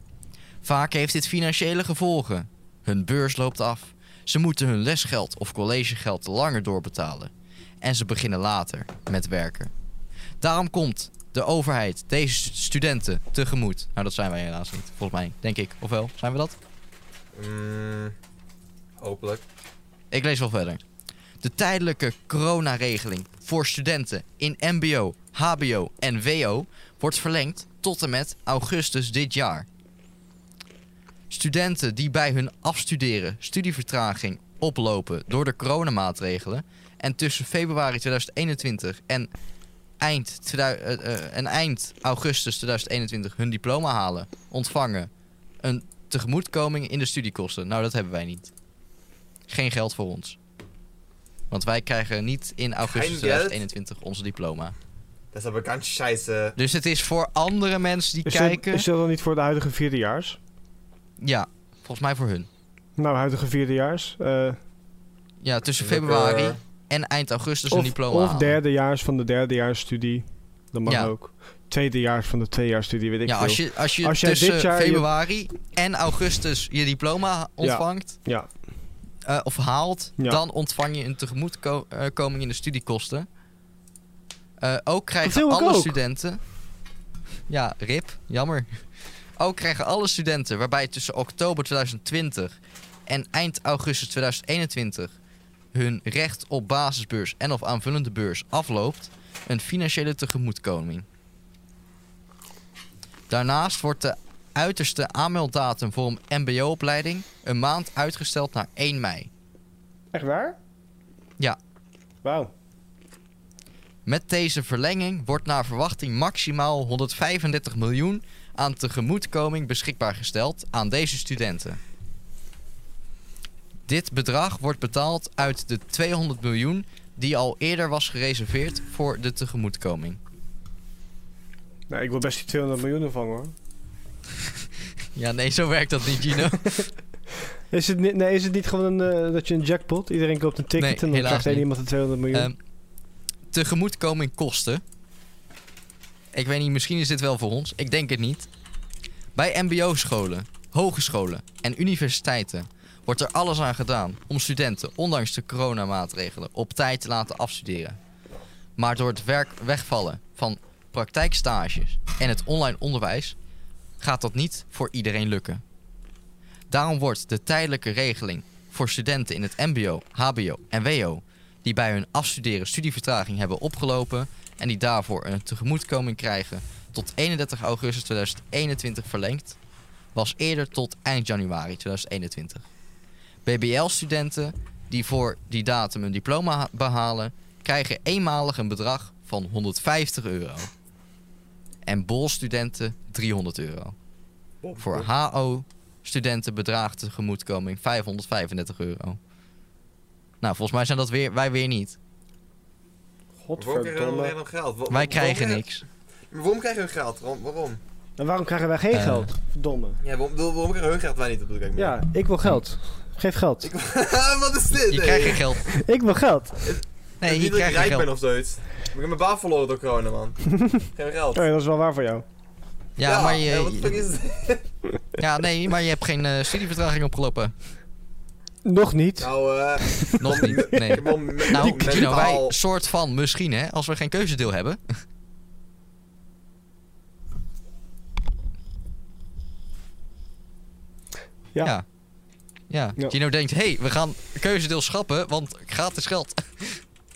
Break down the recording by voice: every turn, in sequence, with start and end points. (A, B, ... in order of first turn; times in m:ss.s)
0:00.6-0:09.7 A
0:10.4-0:16.6 A
0:17.3-0:18.1 B
0:19.0-0:19.4 B
0:20.1-0:20.8 A
0:21.4-0:29.7 A
0:31.3-0:39.3 A
0:40.0-0:45.1 A
0:45.6-0:48.5 A
0:49.5-0:50.4 A
0:51.5-0:54.7 A
0:52.8-0:53.6 B
0:55.3-0:56.6 B
0:56.6-0:58.9 A
0:58.2-1:00.4 C
1:01.2-1:02.5 A
1:03.0-1:04.6 C
1:05.4-1:08.6 A
1:05.8-1:06.6 B
1:07.7-1:15.1 C
1:10.8-1:11.1 A
1:13.2-1:18.2 A
1:17.6-1:18.5 C
1:19.2-1:23.3 A
1:24.6-1:26.4 A
1:25.2-1:26.0 C
1:27.5-1:28.8 A
1:29.4-1:32.6 A
1:33.1-1:35.1 A
1:35.7-1:41.0 A
1:43.3-1:49.3 A
1:50.1-1:50.6 C
1:52.2-1:52.5 C
1:54.0-2:01.8 A
2:03.9-2:10.2 A
2:11.9-2:13.5 C
2:15.2-2:16.9 A
2:17.7-2:22.5 C
2:20.8-2:21.6 A
2:22.3-2:22.6 A
2:23.5-2:24.8 A
2:26.3-2:28.5 A
2:29.3-2:38.0 A
2:38.8-2:43.4 A
2:44.0-2:45.6 A
2:46.7-2:59.6 A
3:00.1-3:02.6 A
3:03.4-3:10.7 A
3:11.8-3:13.9 A
3:14.6-3:15.1 B
3:14.8-3:19.2 A
3:20.4-3:22.0 A
3:23.4-3:24.3 C
3:23.6-3:25.6 B
3:24.9-3:25.8 A
3:26.3-3:27.8 B
3:28.2-3:30.0 C
3:28.9-3:29.3 A
3:30.0-3:32.0 B
3:31.8-3:33.7 C
3:33.6-3:35.5 B
3:34.9-3:35.6 A
3:35.7-3:36.8 C
3:36.6-3:41.4 B
3:37.2-3:38.1 A
3:41.3-3:42.2 C
3:43.0-3:44.0 A
3:43.0-3:44.7 B
3:45.2-3:47.5 A
3:48.6-3:52.1 C
3:49.2-3:52.6 B
3:50.2-3:54.8 A
4:02.7-4:06.8 A